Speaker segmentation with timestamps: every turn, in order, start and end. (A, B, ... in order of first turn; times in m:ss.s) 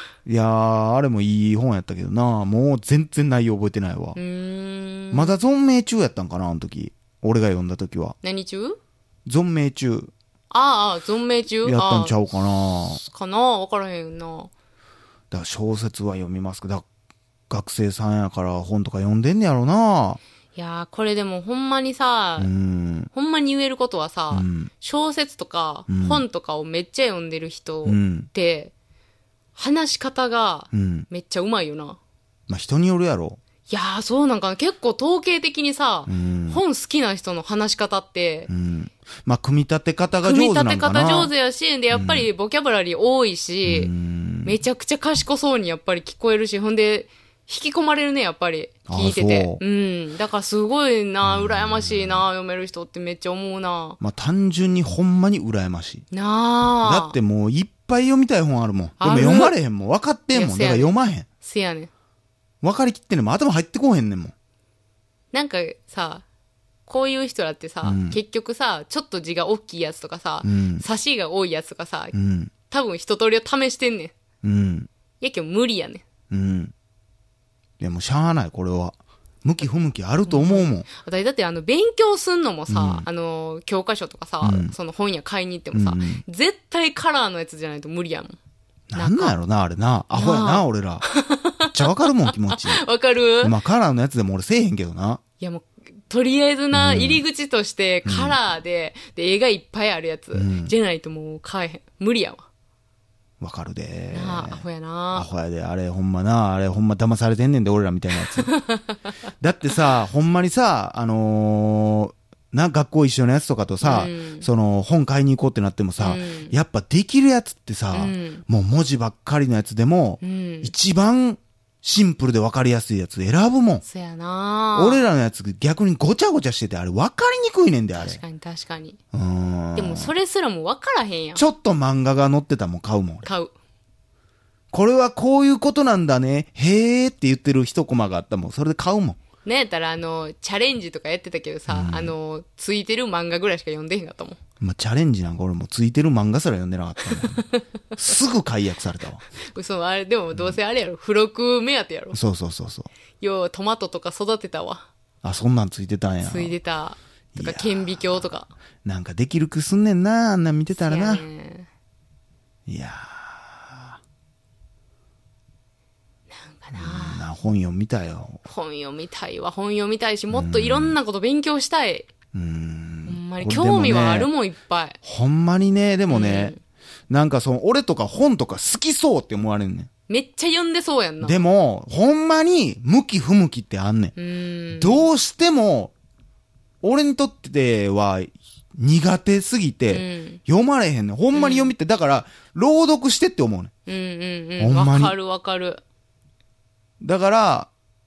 0:00.2-0:04.2 A
0:04.2-0:05.4 B
0:05.1-0:08.2 A
0:08.2-0:08.8 B
0:09.2-0:10.1 A
0:10.5-0:12.2 B
0:11.6-0:13.0 A
0:12.8-0:14.5 B
0:15.3-0:16.8 A
0:17.5-0:20.2 A
0:20.5-0:22.5 B
0:22.4-0:23.1 A
0:23.1-0:28.7 B
0:24.3-0:24.7 A
0:25.9-0:26.2 A
0:27.8-0:28.3 A
0:29.5-0:32.0 B
0:30.7-0:31.1 A
0:32.5-0:33.4 A
0:33.7-0:38.5 B
0:36.1-0:36.6 A
0:38.5-0:41.3 A
0:40.2-0:43.9 B
0:41.9-0:42.3 A
0:43.6-0:44.6 A
0:44.4-0:54.0 B
0:48.9-0:49.6 A
0:51.2-0:52.3 A
0:54.0-0:56.1 A
0:56.1-0:57.2 B
0:56.8-1:01.3 A
0:59.0-0:59.5 B
1:00.3-1:01.9 B
1:02.6-1:04.3 A
1:05.3-1:06.2 B
1:06.9-1:12.1 B
1:07.8-1:08.2 A
1:10.4-1:10.8 A
1:12.1-1:12.5 A
1:12.7-1:14.1 B
1:14.4-1:14.9 A
1:15.2-1:16.0 B
1:16.3-1:16.7 A
1:17.8-1:20.9 A
1:20.3-1:28.4 B
1:22.7-1:23.0 A
1:24.4-1:24.7 A
1:25.7-1:26.2 A
1:28.9-1:31.0 A
1:28.9-1:29.3 B
1:30.1-1:33.5 B
1:31.7-1:32.8 A
1:33.4-1:35.2 A
1:35.4-1:42.4 B
1:36.7-1:37.2 A
1:38.0-1:38.4 A
1:40.3-1:40.7 A
1:43.4-1:48.5 A
1:44.1-1:45.3 B
1:48.5-1:49.0 B
1:49.4-2:03.8 A
1:53.8-1:54.5 B
1:56.0-1:56.5 B
1:57.9-1:58.4 B
2:00.2-2:00.7 B
2:03.8-2:05.0 B
2:04.7-2:08.2 A
2:08.0-2:09.0 B
2:09.1-2:10.1 A
2:09.7-2:11.4 B
2:11.4-2:13.3 A
2:13.2-2:13.5 B
2:14.7-2:19.2 A
2:19.4-2:24.4 B
2:21.7-2:22.1 A
2:24.6-2:27.4 A
2:27.3-2:27.6 B
2:28.0-2:29.2 A
2:29.5-2:32.2 B
2:32.1-2:32.9 A
2:33.2-2:34.9 B
2:35.2-2:36.5 A
2:36.2-2:38.5 B
2:37.3-2:38.3 A
2:38.8-2:41.2 A
2:40.9-2:41.7 B
2:42.7-2:44.0 A
2:46.4-2:47.2 B
2:46.7-2:48.4 A
2:48.4-2:52.1 B
2:50.3-2:51.0 A
2:52.3-2:54.3 A
2:53.0-2:55.0 B
2:55.0-2:56.5 A
2:56.1-2:56.6 B
2:57.1-2:59.9 A
3:00.1-3:01.5 B
3:01.2-3:04.1 A
3:04.2-3:05.1 B
3:04.7-3:05.9 A
3:06.8-3:13.7 A
3:09.9-3:10.4 B
3:11.3-3:11.7 B
3:13.8-3:15.8 B
3:14.6-3:15.1 A
3:17.0-3:17.7 A